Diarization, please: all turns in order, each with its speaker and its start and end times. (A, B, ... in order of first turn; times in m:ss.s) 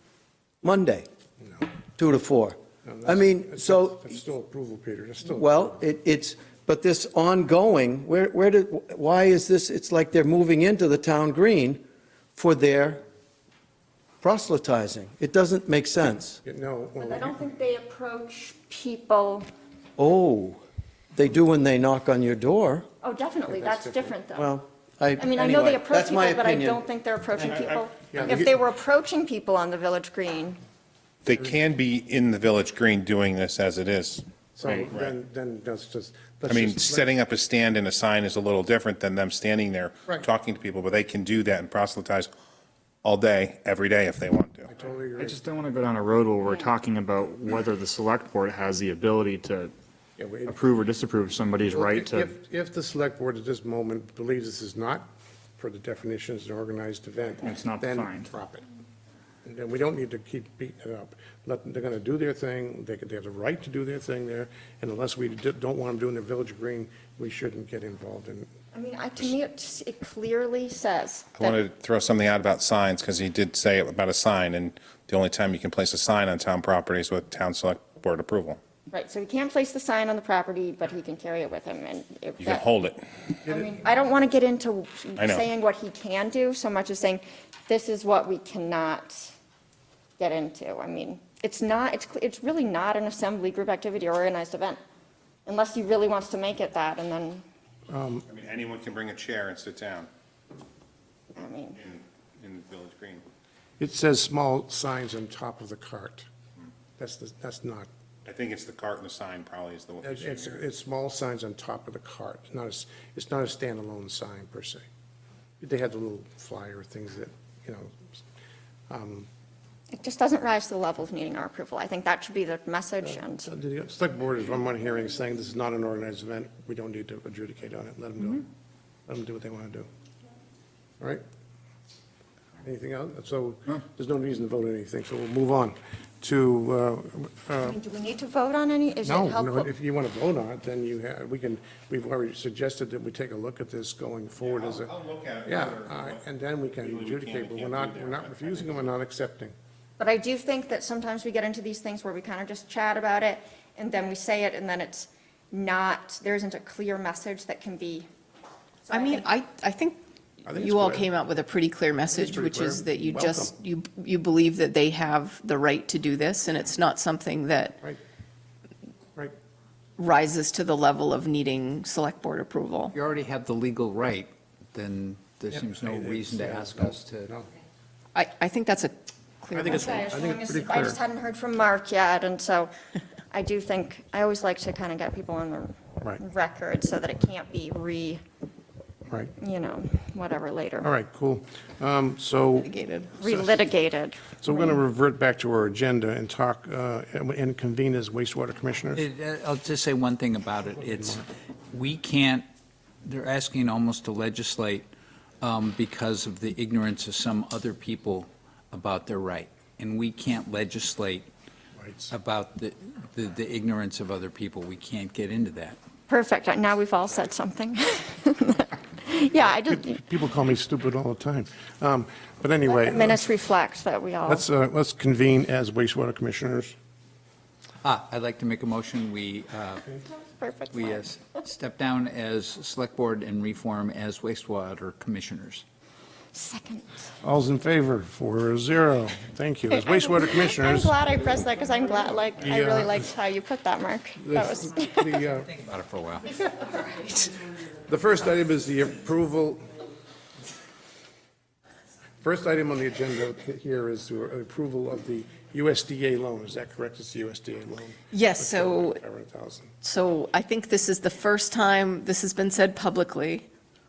0:00.6-0:01.1 A
0:02.0-0:04.2 A
0:02.8-0:05.7 B
0:05.4-0:11.8 A
0:12.4-0:13.0 A
0:14.2-0:16.4 A
0:16.4-0:17.4 B
0:17.0-0:19.5 C
0:20.0-0:20.6 A
0:21.1-0:22.9 A
0:23.0-0:24.5 C
0:23.5-0:24.2 B
0:24.4-0:26.8 A
0:25.2-0:30.6 C
0:28.1-0:28.6 B
0:31.3-0:34.2 D
0:34.6-0:37.1 B
0:34.9-0:35.1 D
0:36.5-0:42.3 D
0:43.0-0:44.6 D
0:44.7-0:45.4 B
0:45.2-0:49.7 E
0:50.2-0:50.8 B
0:50.5-0:52.3 E
0:51.7-0:55.1 B
0:55.6-0:58.6 B
0:57.4-0:58.3 E
0:59.4-1:08.5 B
1:08.7-1:11.6 C
1:11.4-1:18.6 D
1:18.9-1:22.6 C
1:22.4-1:23.0 D
1:23.4-1:29.3 C
1:30.2-1:34.8 C
1:35.5-1:37.4 C
1:37.9-1:38.3 B
1:38.3-1:40.0 D
1:41.4-1:41.8 C
1:41.8-1:43.2 D
1:43.8-1:46.3 B
1:47.0-1:47.9 B
1:48.3-1:50.6 D
1:50.0-1:54.8 B
1:55.6-1:58.0 B
1:58.9-1:59.3 B
1:59.9-2:03.5 C
2:03.0-2:08.5 B
2:09.1-2:09.9 B
2:12.6-2:17.8 B
2:17.6-2:19.7 C
2:19.0-2:24.9 B
2:24.4-2:28.9 D
2:25.5-2:29.6 B
2:30.0-2:38.1 C
2:38.9-2:39.2 C
2:38.9-2:47.8 F
2:40.5-2:41.3 B
2:42.1-2:43.5 B
2:50.0-2:52.9 F
2:52.9-2:57.3 G
2:55.5-2:57.5 B
2:58.1-3:00.1 F
2:59.5-3:01.0 B
2:59.7-3:02.7 C
3:03.3-3:08.2 C
3:09.4-3:10.9 C
3:10.8-3:13.6 B
3:12.6-3:13.1 F
3:13.2-3:14.4 C
3:14.4-3:19.0 B
3:19.0-3:22.4 G
3:23.0-3:24.9 G
3:25.4-3:31.3 G
3:31.8-3:32.1 B
3:32.1-3:35.8 G
3:36.1-3:40.0 C
3:39.5-3:43.2 B
3:42.7-3:44.4 C
3:44.3-3:46.7 B
3:47.8-3:49.9 G
3:50.0-3:51.1 C
3:50.7-3:55.6 G
3:56.3-3:57.1 C
3:57.2-4:00.9 B
3:59.7-4:05.2 C
4:02.4-4:03.0 B
4:04.2-4:05.5 B
4:05.3-4:06.3 G
4:06.4-4:07.1 C
4:07.9-4:09.7 B
4:12.2-4:19.7 B
4:18.1-4:19.0 F
4:19.8-4:23.5 F